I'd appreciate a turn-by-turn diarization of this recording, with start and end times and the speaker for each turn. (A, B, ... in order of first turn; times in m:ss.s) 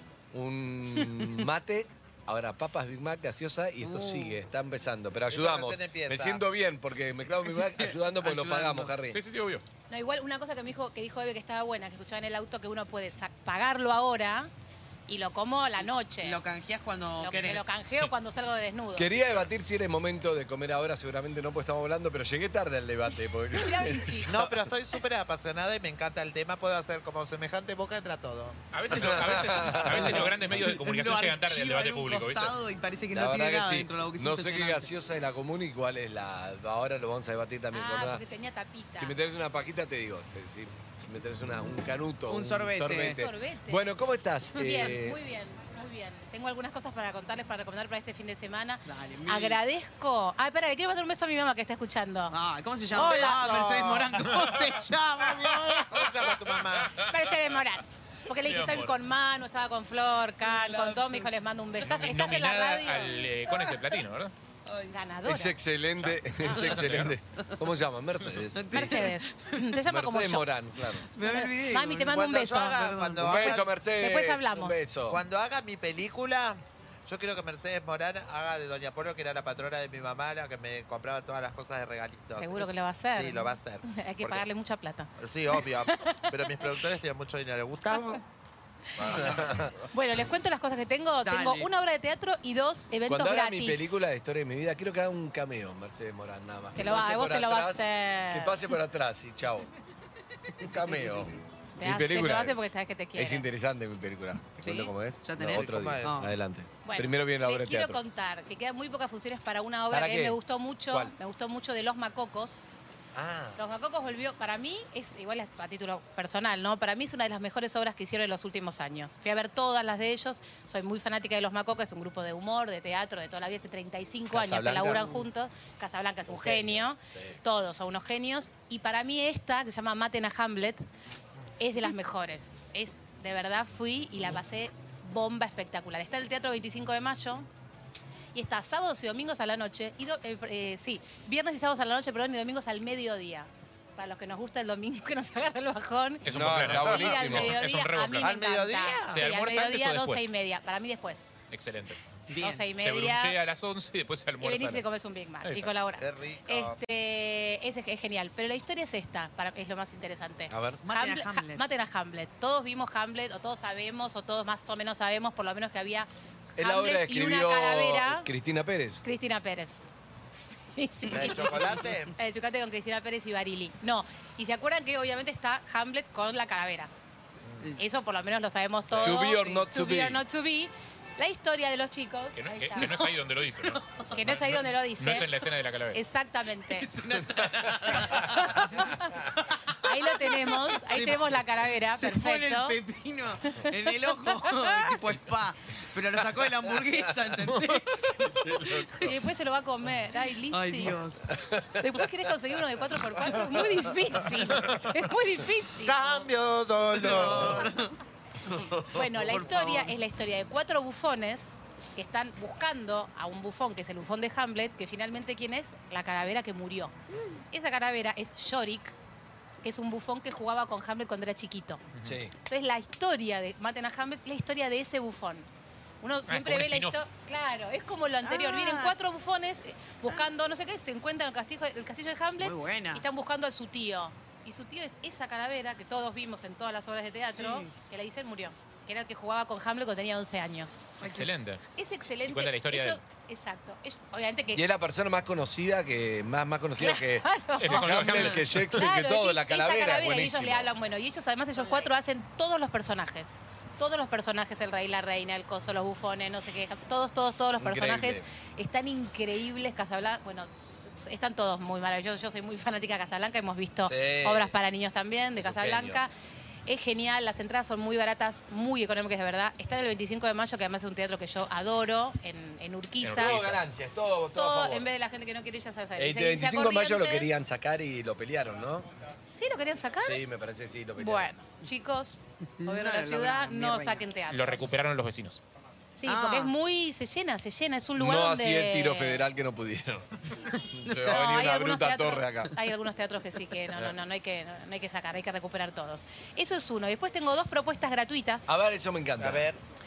0:00.3-0:09.2 A
0:03.8-0:04.4 B
0:05.3-0:06.4 C
0:07.5-0:09.0 B
0:09.1-0:09.6 D
0:09.9-0:14.5 E
0:15.1-0:16.4 E
0:16.2-0:17.9 B
0:17.2-0:19.2 E
0:19.0-0:24.6 A
0:23.6-0:24.3 E
0:24.3-0:28.6 C
0:28.7-0:32.6 D
0:28.9-0:30.3 A
0:30.0-0:34.9 B
0:33.1-0:38.2 A
0:37.7-0:39.2 E
0:39.0-0:45.2 A
0:42.3-0:43.2 B
0:43.0-0:43.9 E
0:44.6-0:52.4 E
0:48.9-0:49.6 B
0:52.3-0:55.9 B
0:52.9-0:53.4 E
0:53.2-0:54.3 C
0:54.4-0:54.7 D
0:55.5-0:56.9 D
0:55.9-0:57.0 C
0:57.0-1:03.3 E
0:58.4-0:58.9 D
1:00.4-1:01.3 B
1:01.8-1:04.3 D
1:04.8-1:05.6 E
1:05.3-1:09.1 A
1:06.0-1:07.2 D
1:08.6-1:09.6 B
1:08.7-1:10.5 E
1:09.8-1:11.1 A
1:11.0-1:12.1 B
1:11.3-1:14.8 E
1:12.0-1:13.7 C
1:12.9-1:13.3 B
1:13.2-1:15.2 A
1:15.1-1:24.5 C
1:22.4-1:26.5 E
1:25.2-1:28.2 C
1:29.0-1:29.7 A
1:29.0-1:29.5 C
1:29.9-1:34.0 E
1:31.2-1:31.7 B
1:33.1-1:39.7 A
1:36.8-1:38.6 E
1:40.6-1:48.0 A
1:41.8-1:43.5 E
1:44.6-1:46.3 B
1:45.5-1:46.2 C
1:46.8-1:52.7 E
1:49.9-1:50.4 A
1:53.2-1:53.6 A
1:53.6-2:10.8 E
2:04.3-2:05.2 A
2:06.3-2:07.4 A
2:11.6-2:17.5 E
2:18.3-2:31.3 E
2:26.2-2:28.3 D
2:26.3-2:27.6 A
2:26.7-2:27.3 C
2:28.2-2:29.2 C
2:29.1-2:30.2 D
2:31.5-2:32.0 D
2:32.3-2:32.7 B
2:32.4-2:33.4 E
2:32.8-2:34.8 D
2:34.4-2:48.3 E
2:35.4-2:35.7 D
2:36.0-2:36.8 C
2:40.5-2:40.8 A
2:40.8-2:41.6 B
2:46.6-2:49.0 A
2:49.0-2:49.8 E
2:50.8-2:56.9 E
2:51.1-2:52.1 C
2:57.8-3:03.1 E
2:59.0-3:00.2 A
2:59.3-2:59.7 B
3:02.4-3:06.0 D
3:04.1-3:05.3 E
3:05.9-3:06.9 E
3:06.7-3:08.4 B
3:08.1-3:09.1 E
3:09.7-3:12.8 E
3:10.5-3:11.4 B
3:11.9-3:19.1 B
3:13.5-3:14.9 E
3:18.2-3:19.3 A
3:19.0-3:21.0 E
3:20.5-3:21.4 B
3:21.3-3:22.0 A
3:21.8-3:26.3 E
3:25.8-3:27.8 C
3:27.0-3:27.9 B
3:28.4-3:30.0 B
3:28.8-3:36.9 E
3:37.5-3:39.0 E
3:39.6-3:41.8 E
3:42.0-3:42.2 D
3:42.0-3:42.3 A
3:42.4-3:45.5 E
3:46.0-4:00.9 E
3:46.3-3:47.0 D
3:48.2-3:49.0 B
3:52.4-3:53.0 B
3:57.3-3:57.7 B
4:01.0-4:01.6 D
4:01.8-4:04.6 E
4:02.2-4:03.0 D
4:04.5-4:10.7 A
4:06.8-4:26.1 E
4:07.6-4:08.8 D
4:17.6-4:18.2 A
4:23.8-4:24.5 A
4:25.4-4:26.0 A
4:26.7-4:33.5 E
4:33.0-4:33.6 D
4:33.2-4:34.9 A
4:34.4-4:37.3 E
4:36.0-4:38.9 A
4:39.3-4:40.2 E
4:40.0-4:41.3 A
4:41.0-4:44.9 E
4:42.6-4:44.0 B
4:44.3-4:45.4 D
4:45.9-4:49.3 E
4:46.1-4:46.5 B
4:48.0-4:50.1 A
4:50.7-4:52.5 A
4:50.8-4:51.2 B
4:51.1-4:58.5 E
4:58.5-4:59.5 A
4:59.2-4:59.6 C